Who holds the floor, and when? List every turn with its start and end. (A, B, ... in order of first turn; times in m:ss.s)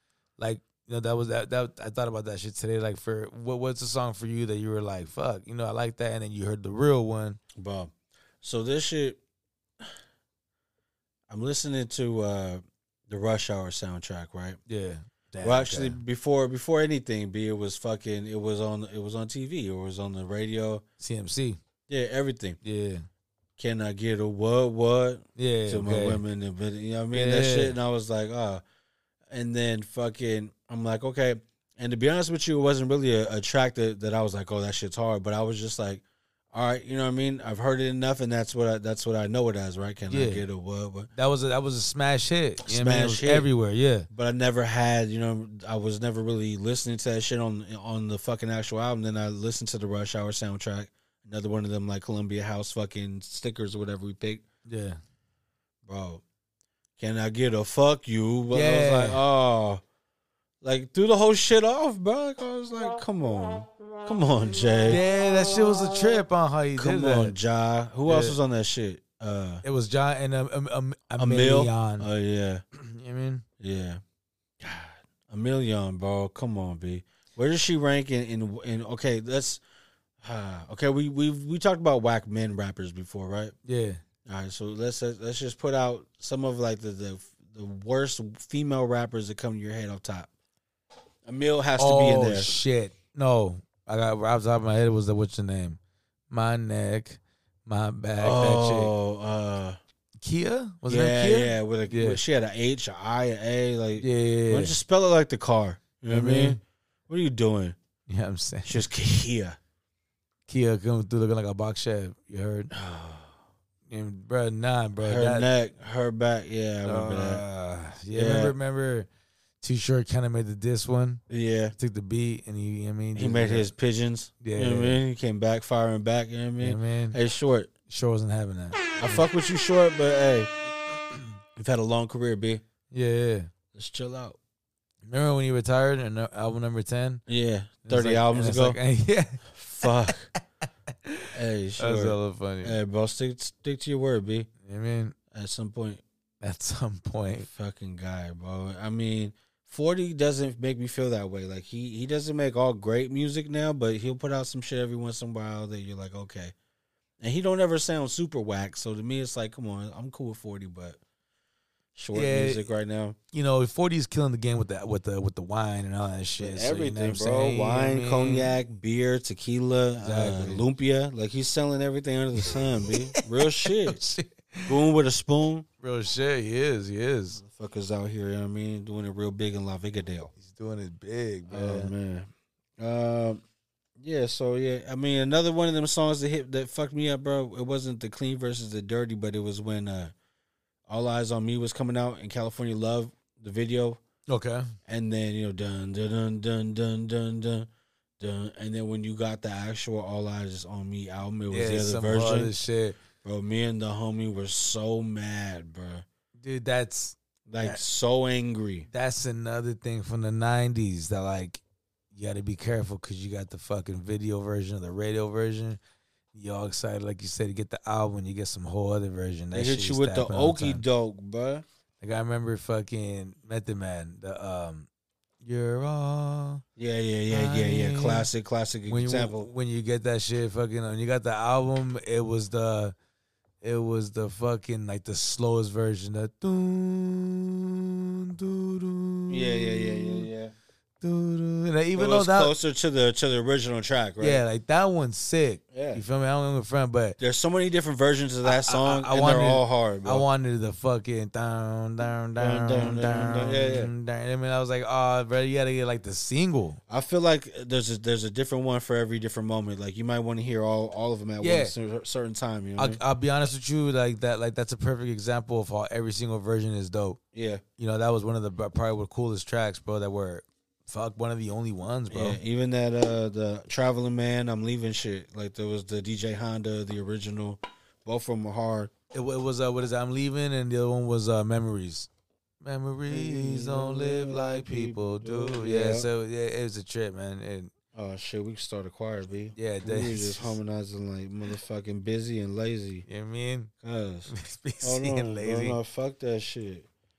0:00.4-0:07.4 A
0:07.6-0:09.2 B
0:11.3-0:14.6 B
0:14.6-0:16.0 A
0:15.4-0:20.8 B
0:21.0-0:21.6 A
0:21.9-0:22.6 B
0:22.6-0:23.1 A
0:23.6-0:28.6 B
0:25.4-0:26.2 A
0:27.1-0:27.8 A
0:29.3-0:41.1 B
0:40.1-0:40.4 A
0:41.1-0:44.1 A
0:42.6-0:43.5 B
0:44.1-0:54.4 B
0:54.6-0:55.0 A
0:55.9-0:56.2 B
0:57.0-0:59.8 B
0:58.5-0:59.2 A
1:00.6-1:05.0 B
1:04.9-1:07.4 A
1:06.8-1:09.6 B
1:08.1-1:08.4 A
1:09.6-1:12.1 A
1:11.2-1:12.6 B
1:12.7-1:13.4 A
1:13.6-1:14.0 B
1:14.6-1:19.6 B
1:20.2-1:23.6 B
1:23.6-1:24.0 A
1:24.3-1:30.3 B
1:31.3-1:32.6 B
1:31.8-1:35.8 A
1:36.3-1:38.9 A
1:38.2-1:39.8 B
1:40.2-1:42.2 A
1:40.9-1:47.8 B
1:44.0-1:44.8 A
1:46.1-1:46.6 A
1:48.1-1:48.8 A
1:48.6-1:49.6 B
1:50.5-1:52.7 A
1:52.7-1:53.4 B
1:53.9-1:55.5 A
1:55.0-1:57.4 B
1:56.8-1:59.1 A
1:58.1-1:58.6 B
1:59.6-2:01.2 A
2:01.3-2:01.7 B
2:01.8-2:03.7 A
2:03.2-2:07.7 B
2:04.4-2:05.0 A
2:06.6-2:07.2 A
2:07.9-2:09.2 A
2:09.0-2:10.5 B
2:11.6-2:12.6 B
2:12.9-2:13.5 A
2:13.7-2:14.4 B
2:15.0-2:17.2 A
2:17.3-2:18.8 B
2:17.9-2:19.8 A
2:19.5-2:20.3 B
2:21.0-2:22.8 A
2:21.3-2:24.5 B
2:24.6-2:25.2 A
2:25.3-2:26.0 B
2:26.4-2:27.5 A
2:27.4-2:36.5 B
2:37.2-2:41.0 B
2:42.0-2:43.2 B
2:42.1-2:42.7 A
2:43.3-2:48.5 A
2:46.4-2:54.0 B
2:50.0-2:50.6 A
2:52.4-2:54.7 A
2:54.7-2:55.6 B
2:55.8-2:57.4 A
2:57.4-3:00.3 B
3:00.4-3:01.9 A
3:01.5-3:03.4 B
3:04.0-3:10.1 B
3:10.9-3:14.0 B
3:14.3-3:14.7 A
3:14.9-3:17.7 B
3:18.2-3:22.5 B
3:21.5-3:23.0 A
3:23.2-3:26.0 B
3:26.4-3:27.8 A
3:27.5-3:28.9 B
3:28.9-3:31.6 A
3:32.1-3:35.8 A
3:36.3-3:40.8 A
3:39.5-3:41.6 B
3:42.0-3:44.9 A
3:45.4-3:46.6 A
3:46.8-3:49.5 B
3:47.3-3:48.3 A
3:48.9-3:53.0 A
3:53.6-4:00.3 A
3:59.3-4:00.5 B
4:01.0-4:02.5 A
4:02.0-4:04.4 B
4:04.2-4:07.2 A
4:05.7-4:06.0 B
4:07.2-4:10.3 B
4:08.4-4:16.8 A
4:12.4-4:13.9 B
4:16.9-4:23.0 B
4:21.4-4:21.7 A
4:22.8-4:27.2 A
4:27.3-4:27.6 B
4:27.8-4:32.4 A
4:32.1-4:38.9 B
4:39.1-4:42.1 A
4:42.6-4:47.7 A
4:43.1-4:46.1 B
4:47.9-4:53.0 B
4:49.6-4:50.6 A
4:53.1-4:53.7 A
4:53.8-4:54.3 B
4:54.3-4:55.8 A
4:54.8-4:56.9 B